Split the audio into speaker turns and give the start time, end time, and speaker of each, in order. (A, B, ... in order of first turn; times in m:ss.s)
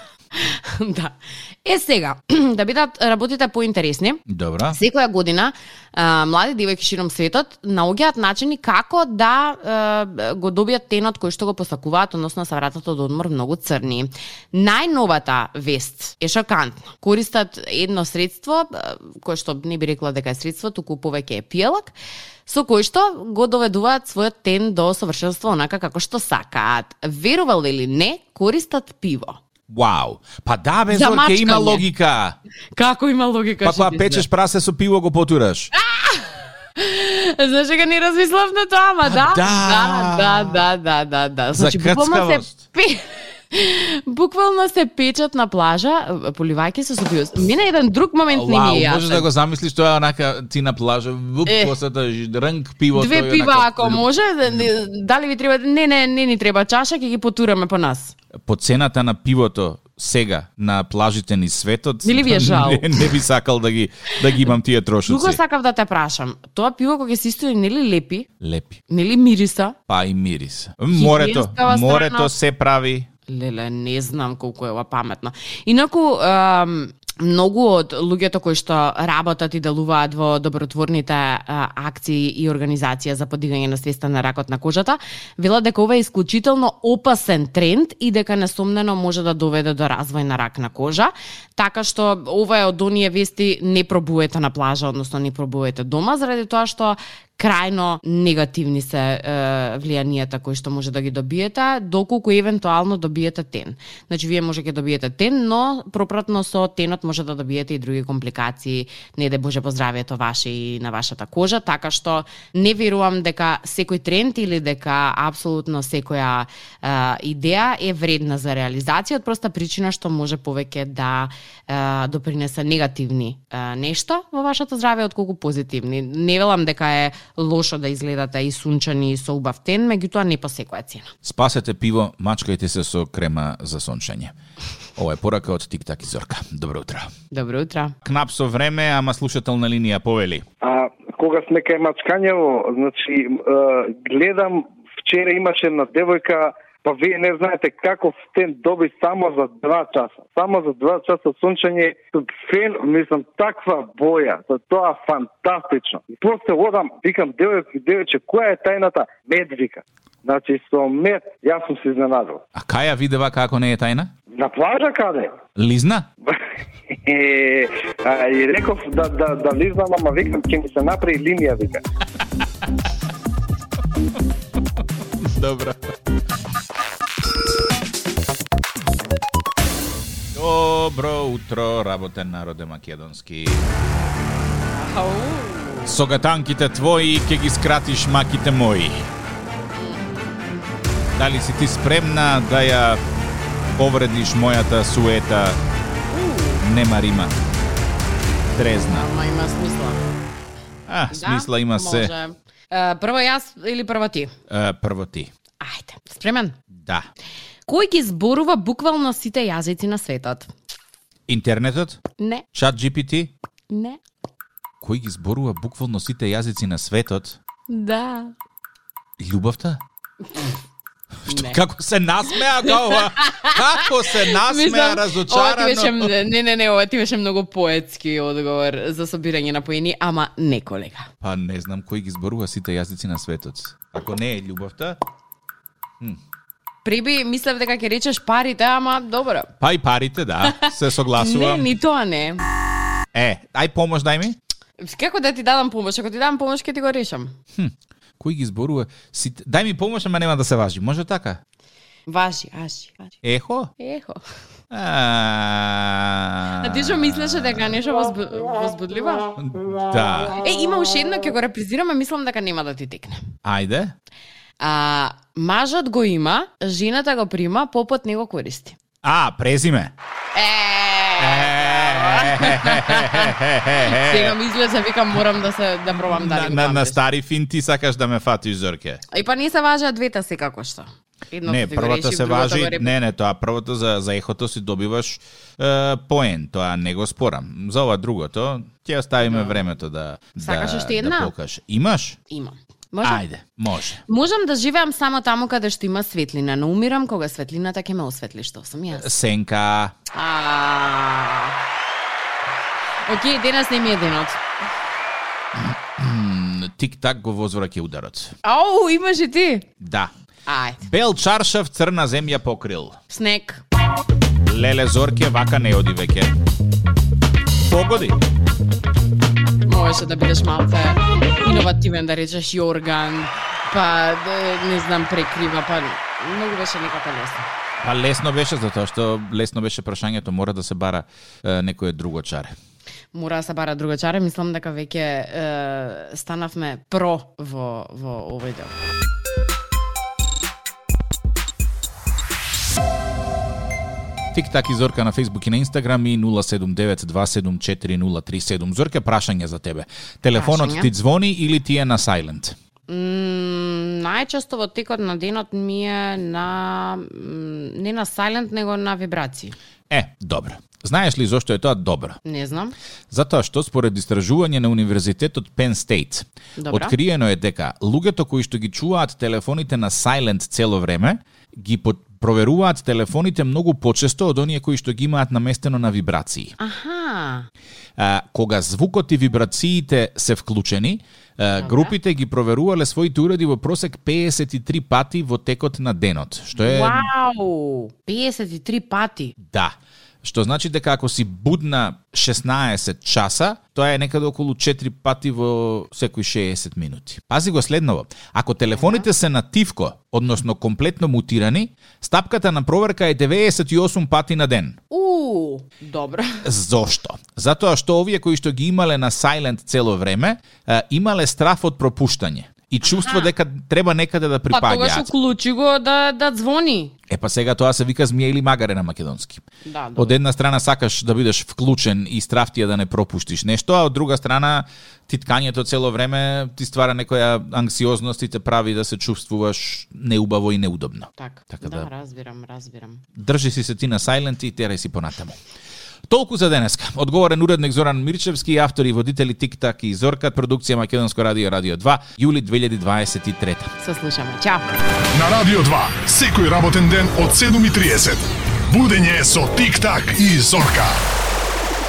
0:00.3-0:21.9 A
0:04.3-0:04.8 B
0:22.4-0:29.4 A
0:29.7-0:32.4 B
0:30.9-0:31.8 A
0:32.7-0:34.2 A
0:33.6-0:35.7 B
0:35.7-0:43.0 A
0:39.0-0:40.6 B
0:41.5-0:42.6 B
0:43.5-0:49.3 A
0:48.3-0:54.7 B
0:51.4-0:51.7 A
0:52.9-0:58.1 A
0:58.4-1:05.4 B
1:02.0-1:03.1 A
1:05.0-1:08.3 A
1:08.4-1:08.8 B
1:08.9-1:09.7 A
1:09.9-1:13.1 B
1:10.9-1:12.3 A
1:13.3-2:11.1 A
2:11.2-2:14.3 B
2:15.0-2:17.1 B
2:17.3-2:17.9 A
2:18.0-2:20.4 B
2:20.6-2:42.4 C
2:42.6-2:44.1 B
2:44.4-2:45.4 C
2:45.6-2:46.0 B
2:47.0-2:51.8 C
2:55.2-2:55.9 B
3:00.3-3:03.7 B
3:04.7-3:06.0 A
3:05.8-3:09.1 B
3:09.8-3:10.4 A
3:11.2-3:13.0 B
3:13.8-3:15.6 B
3:16.1-3:16.6 A
3:16.6-3:17.3 B
3:18.5-3:19.0 B
3:18.9-3:20.0 A
3:20.9-3:22.1 B
3:21.1-3:24.3 A
3:24.5-3:25.3 B
3:25.6-3:26.6 A
3:26.8-3:27.1 B
3:27.7-3:30.5 A
3:31.3-3:32.0 B
3:32.2-3:32.4 A
3:32.5-3:33.3 B
3:33.7-3:34.0 A
3:34.8-3:37.4 B
3:37.7-3:38.3 A
3:39.2-3:39.8 B
3:41.2-3:46.1 B
3:41.3-3:41.6 A
3:42.4-3:51.1 A
3:51.2-3:55.0 B
3:56.8-3:59.5 A
3:59.6-4:01.7 B
4:00.5-4:02.4 A
4:03.1-4:04.4 B
4:04.8-4:07.3 A
4:07.6-4:11.4 B
4:12.1-4:13.2 A
4:13.2-4:13.7 B
4:13.8-4:14.2 A
4:14.7-4:17.7 B
4:16.5-4:19.3 A
4:19.4-4:20.3 B
4:20.4-4:23.2 A
4:23.4-4:23.9 B
4:24.6-4:28.8 A
4:29.0-4:29.9 B
4:30.3-4:37.0 A
4:31.2-4:34.4 B
4:36.0-4:39.0 B
4:39.1-4:42.9 A
4:41.4-4:52.2 B
4:49.2-4:49.6 A
4:50.4-4:51.3 A
4:52.3-4:53.2 A
4:53.0-4:54.0 B
4:54.0-4:59.1 A
4:58.9-4:59.9 B
5:00.1-5:01.6 A
5:03.0-5:04.4 A
5:05.5-5:08.3 B
5:08.4-5:09.6 A
5:09.8-5:10.1 B
5:10.4-5:10.8 A
5:10.8-5:13.0 B
5:13.1-5:13.6 A
5:14.4-5:16.3 B
5:17.6-5:18.2 B
5:19.6-5:27.5 A
5:27.8-5:32.5 B
5:33.1-5:38.7 A
5:44.3-5:52.5 B
5:50.3-5:50.9 A
5:52.9-5:59.5 A
5:59.9-6:02.2 B
6:02.2-6:02.7 A
6:03.1-6:16.5 B
6:06.6-6:07.0 A
6:16.6-6:17.5 A
6:18.0-6:27.1 B
6:21.6-6:21.9 A
6:26.6-6:29.3 A
6:29.5-6:44.8 B
6:38.8-6:39.0 A
6:44.9-6:46.4 A
6:46.4-6:55.1 B
6:52.8-6:53.3 A
6:54.5-6:56.9 A
6:57.1-6:59.4 B
6:59.6-7:00.2 A
7:00.0-7:11.9 B
7:11.2-7:13.0 A
7:13.2-7:15.4 B
7:16.1-7:23.7 B
7:23.8-7:24.7 A
7:25.1-7:31.0 D